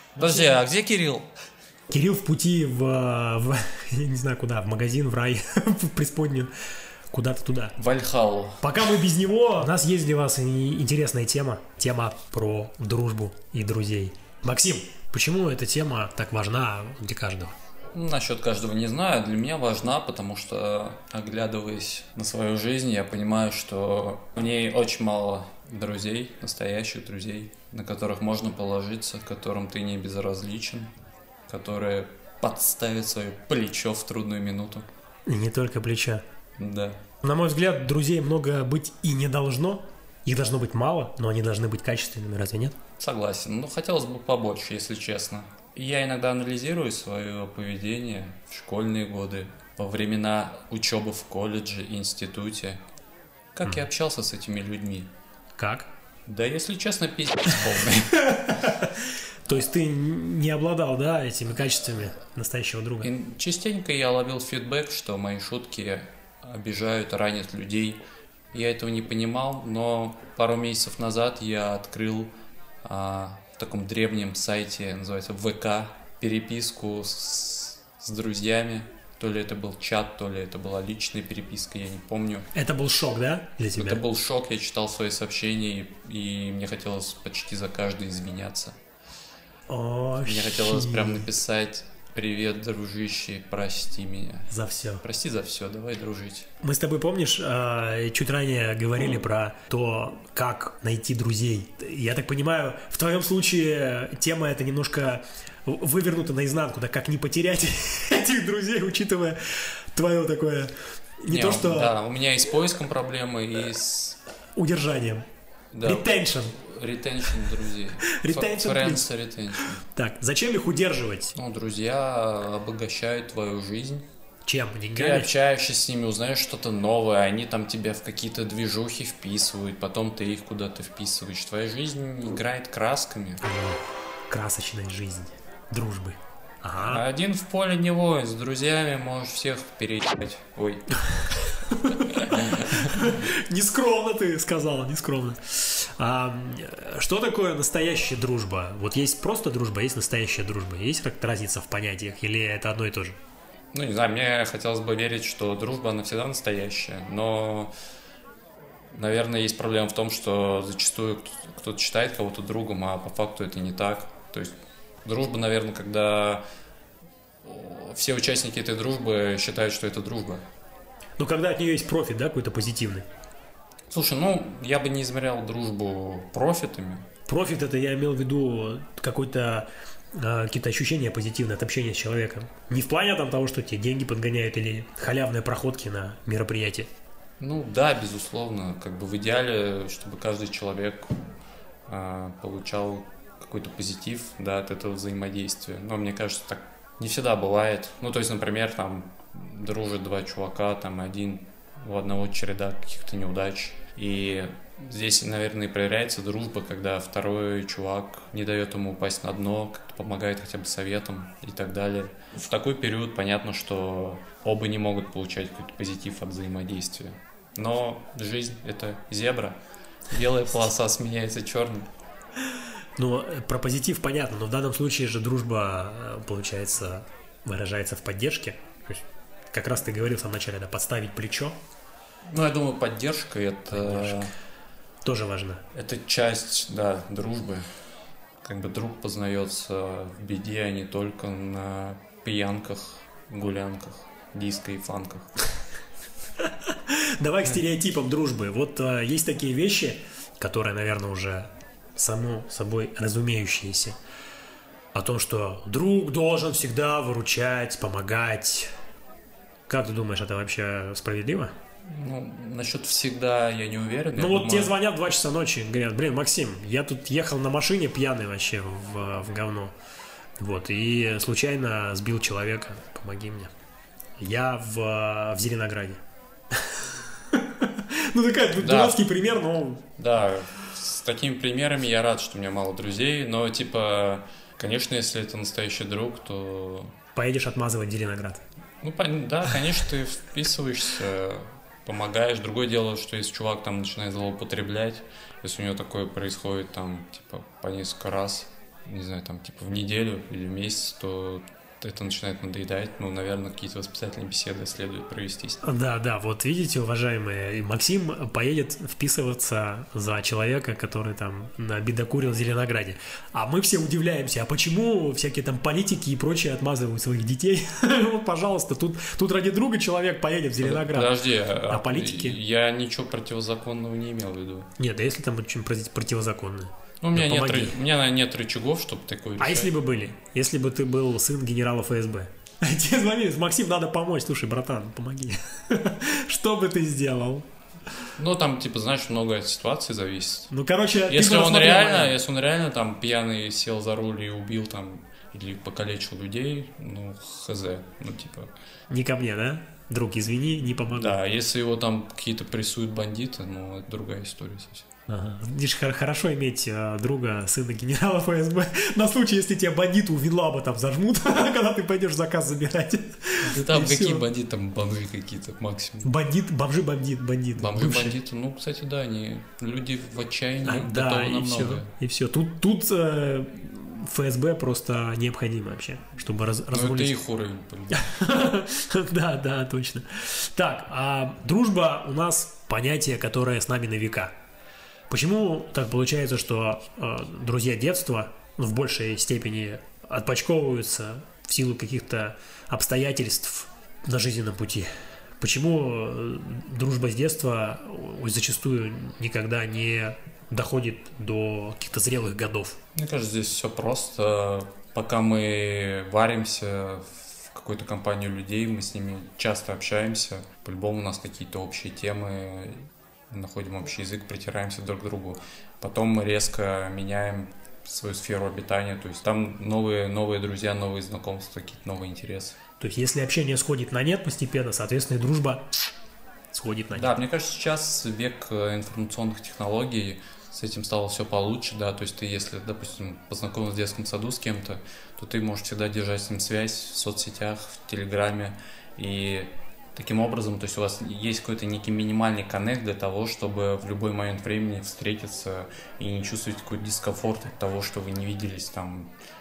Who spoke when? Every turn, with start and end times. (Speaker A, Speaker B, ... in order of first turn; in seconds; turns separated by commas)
Speaker A: 0.2-1.3, Speaker B: 0.2-0.5, Speaker B: 1.9-6.5, Speaker B: 7.1-7.8, Speaker A: 7.8-8.8, Speaker B: 8.6-17.5, Speaker A: 17.9-30.9, Speaker A: 31.5-34.8, Speaker B: 35.3-36.2, Speaker A: 36.6-37.0, Speaker B: 37.2-42.7, Speaker A: 43.0-52.8, Speaker A: 53.5-55.1, Speaker B: 55.6-55.9, Speaker A: 56.3-58.4, Speaker B: 58.5-58.9, Speaker B: 59.5-63.1, Speaker A: 63.0-68.0, Speaker A: 68.5-72.3, Speaker A: 72.8-82.5, Speaker B: 82.5-84.0, Speaker A: 83.8-88.7, Speaker B: 89.7-91.3, Speaker A: 90.2-96.5, Speaker B: 94.5-95.0, Speaker B: 96.6-111.9, Speaker A: 111.3-114.2, Speaker B: 114.5-115.2, Speaker A: 115.7-119.8, Speaker B: 115.8-116.5, Speaker B: 118.1-119.0, Speaker B: 119.8-121.3, Speaker A: 121.3-124.0, Speaker B: 124.4-125.3, Speaker A: 124.9-133.4, Speaker B: 133.4-137.0, Speaker A: 136.8-140.8, Speaker B: 141.8-153.2, Speaker A: 142.3-143.1, Speaker A: 153.7-157.7, Speaker A: 158.9-164.5, Speaker A: 165.0-166.4, Speaker A: 167.4-170.4, Speaker B: 171.2-173.1, Speaker A: 173.9-177.1, Speaker B: 177.3-186.9, Speaker A: 187.4-191.1, Speaker A: 191.9-219.6, Speaker A: 220.1-221.9, Speaker B: 223.0-231.6, Speaker A: 232.3-234.3, Speaker B: 233.7-234.2, Speaker B: 235.0-235.6, Speaker A: 235.7-237.6, Speaker A: 238.4-245.3, Speaker B: 246.9-254.0, Speaker B: 254.9-258.7, Speaker B: 259.7-261.5, Speaker A: 261.9-264.7, Speaker B: 264.1-269.7, Speaker B: 270.4-273.5, Speaker B: 274.2-276.0, Speaker B: 276.7-279.8, Speaker A: 278.6-279.0, Speaker A: 280.0-286.9, Speaker B: 287.1-288.4, Speaker A: 288.8-305.6, Speaker B: 305.6-322.4, Speaker A: 320.6-324.7, Speaker B: 324.8-327.8, Speaker A: 327.0-329.7, Speaker B: 329.4-337.4, Speaker A: 338.2-340.5, Speaker B: 340.5-342.2, Speaker A: 341.1-348.5, Speaker B: 348.9-351.2, Speaker A: 350.9-354.8, Speaker B: 355.1-364.2, Speaker A: 363.5-366.1, Speaker B: 366.0-368.2, Speaker A: 367.6-371.9, Speaker B: 370.6-377.1, Speaker A: 376.7-378.1, Speaker B: 377.9-384.3, Speaker B: 385.1-394.9, Speaker B: 395.4-402.8, Speaker A: 402.9-422.6, Speaker B: 422.8-425.7, Speaker B: 426.5-427.1, Speaker A: 426.9-449.1